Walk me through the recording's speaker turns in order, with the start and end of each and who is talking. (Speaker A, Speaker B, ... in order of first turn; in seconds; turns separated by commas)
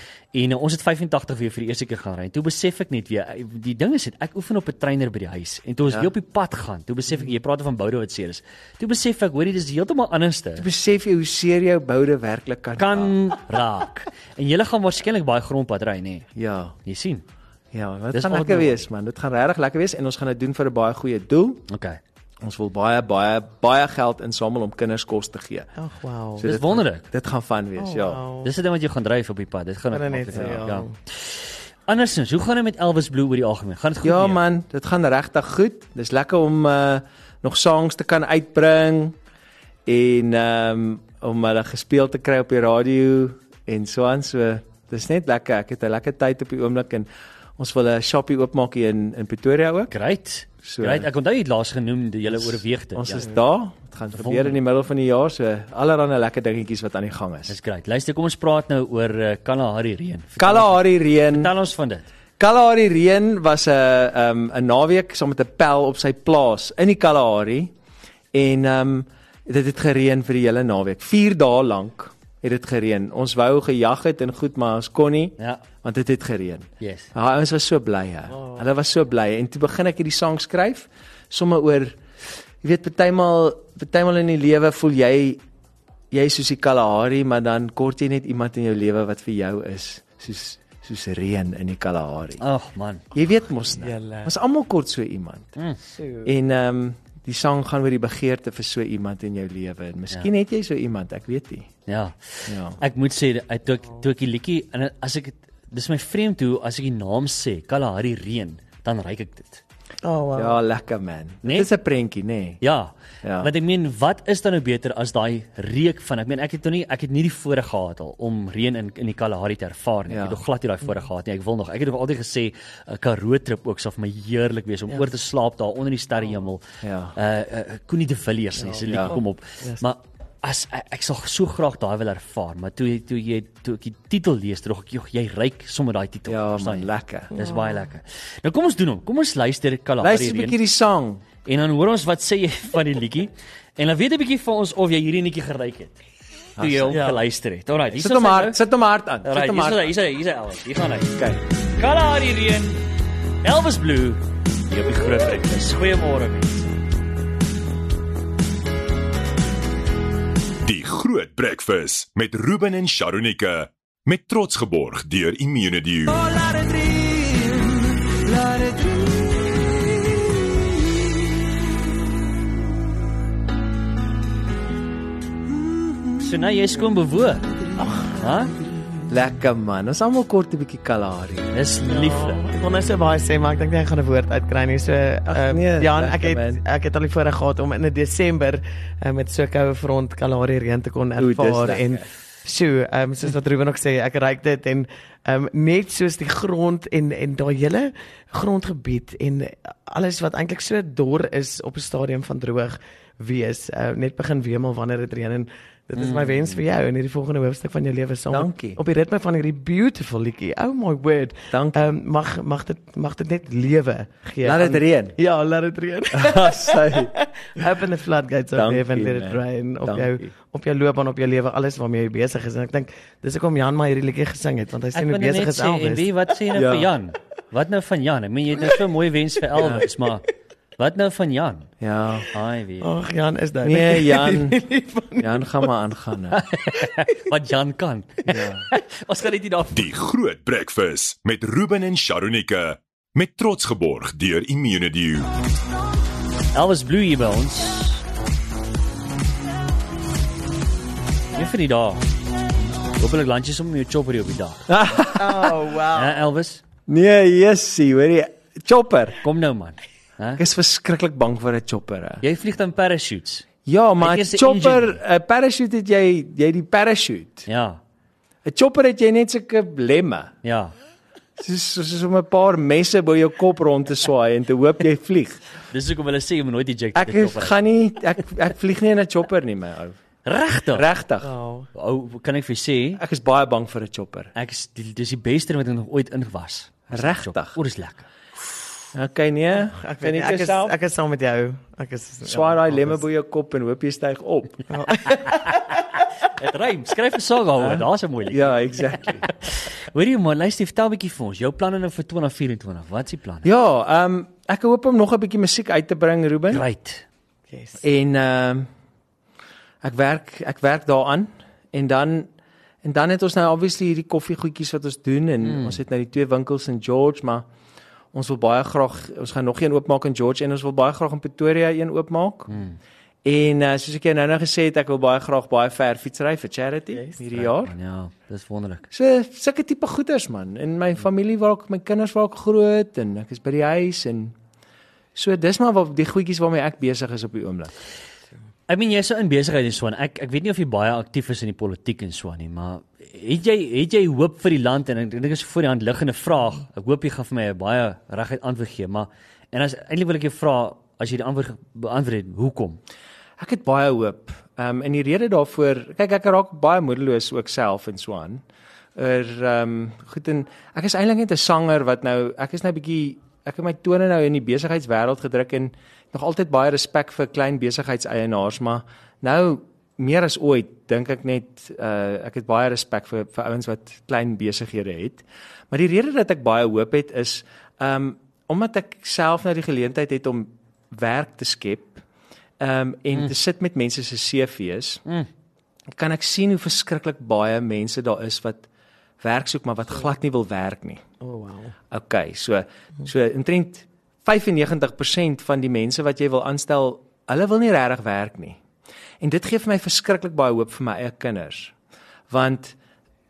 Speaker A: 0.3-10.7, Speaker B: 10.6-13.1, Speaker A: 12.8-16.3, Speaker B: 16.4-16.7, Speaker A: 16.8-17.2, Speaker B: 17.7-21.6, Speaker A: 18.1-18.8, Speaker A: 21.7-22.0, Speaker B: 22.4-25.7, Speaker C: 25.8-26.5, Speaker B: 26.4-28.2, Speaker A: 26.4-27.0, Speaker C: 27.8-28.5, Speaker A: 28.4-34.4, Speaker C: 29.9-30.9, Speaker B: 30.3-30.6, Speaker B: 34.0-39.1, Speaker B: 39.9-49.9, Speaker A: 49.9-53.3, Speaker B: 50.6-51.1, Speaker B: 52.3-57.5, Speaker A: 54.1-54.5, Speaker A: 57.5-62.1, Speaker B: 60.4-61.5, Speaker B: 62.4-67.7, Speaker B: 68.3-82.0, Speaker A: 76.8-77.1, Speaker B: 82.6-85.4, Speaker B: 86.1-92.4, Speaker A: 92.4-93.0, Speaker B: 93.1-95.5, Speaker C: 93.8-94.3, Speaker C: 95.9-96.3, Speaker B: 96.2-101.7, Speaker A: 101.9-109.6, Speaker B: 102.5-102.8, Speaker C: 110.0-110.6, Speaker B: 110.3-112.6, Speaker A: 111.4-111.7, Speaker A: 112.6-126.6, Speaker B: 113.2-113.5, Speaker B: 120.1-120.4, Speaker B: 126.8-127.2, Speaker A: 127.2-140.6, Speaker C: 128.6-129.8, Speaker B: 128.8-129.2, Speaker B: 136.3-137.3, Speaker C: 137.3-137.8, Speaker B: 140.0-141.2, Speaker A: 141.4-146.0, Speaker B: 146.6-147.1, Speaker A: 146.6-148.6, Speaker C: 146.9-147.2, Speaker B: 147.9-149.9, Speaker A: 149.2-151.2, Speaker B: 151.2-151.4, Speaker A: 151.8-152.8, Speaker A: 153.4-156.7, Speaker D: 160.6-166.2, Speaker B: 166.1-170.8, Speaker B: 175.5-176.3, Speaker A: 176.2-177.5, Speaker A: 178.1-178.5, Speaker B: 179.1-181.5, Speaker A: 181.5-182.4, Speaker C: 181.9-226.1, Speaker B: 185.3-186.6, Speaker B: 191.2-192.0, Speaker A: 205.9-206.6, Speaker B: 208.3-208.8, Speaker B: 211.5-211.8, Speaker B: 214.4-215.2, Speaker B: 216.1-217.1, Speaker B: 218.5-220.3, Speaker A: 224.9-231.7, Speaker B: 226.5-226.9, Speaker B: 229.6-229.8, Speaker B: 231.8-232.3, Speaker A: 232.3-232.9, Speaker C: 232.8-235.4, Speaker B: 233.6-234.6, Speaker B: 235.2-236.4, Speaker A: 236.3-239.8, Speaker B: 238.3-238.7, Speaker D: 239.7-245.3, Speaker A: 246.5-248.0, Speaker A: 251.3-252.0, Speaker A: 253.0-254.7, Speaker B: 254.7-255.6, Speaker C: 255.1-256.2, Speaker A: 255.9-256.6, Speaker B: 256.9-259.2, Speaker A: 259.2-260.4, Speaker B: 260.4-262.2, Speaker A: 262.2-265.0, Speaker B: 263.6-267.5, Speaker A: 267.5-267.8, Speaker B: 268.4-270.3, Speaker A: 270.4-270.7, Speaker B: 271.4-275.4, Speaker A: 275.7-277.6, Speaker B: 276.9-280.0, Speaker A: 280.2-280.9, Speaker B: 280.7-281.3, Speaker C: 281.2-281.7, Speaker A: 281.7-283.0, Speaker B: 283.0-284.3, Speaker A: 284.3-288.1, Speaker B: 286.9-287.6, Speaker B: 288.9-290.8, Speaker C: 289.8-293.0, Speaker B: 292.2-294.6, Speaker C: 294.7-295.7, Speaker A: 296.3-303.5, Speaker B: 297.6-299.3, Speaker B: 303.4-306.6, Speaker A: 306.5-307.0, Speaker C: 307.5-307.8, Speaker B: 307.8-308.7, Speaker B: 309.8-312.3, Speaker B: 312.8-317.4, Speaker A: 315.4-315.8, Speaker B: 318.1-322.5, Speaker A: 322.5-322.8, Speaker B: 323.2-327.7, Speaker A: 327.3-328.9, Speaker B: 328.9-334.3, Speaker B: 335.1-337.7, Speaker A: 338.7-352.8, Speaker B: 353.4-358.4, Speaker B: 358.9-382.0, Speaker B: 382.6-385.0, Speaker B: 385.9-388.6, Speaker B: 389.2-391.0, Speaker C: 391.2-391.7, Speaker B: 391.9-398.6, Speaker B: 399.2-401.7, Speaker B: 402.3-402.8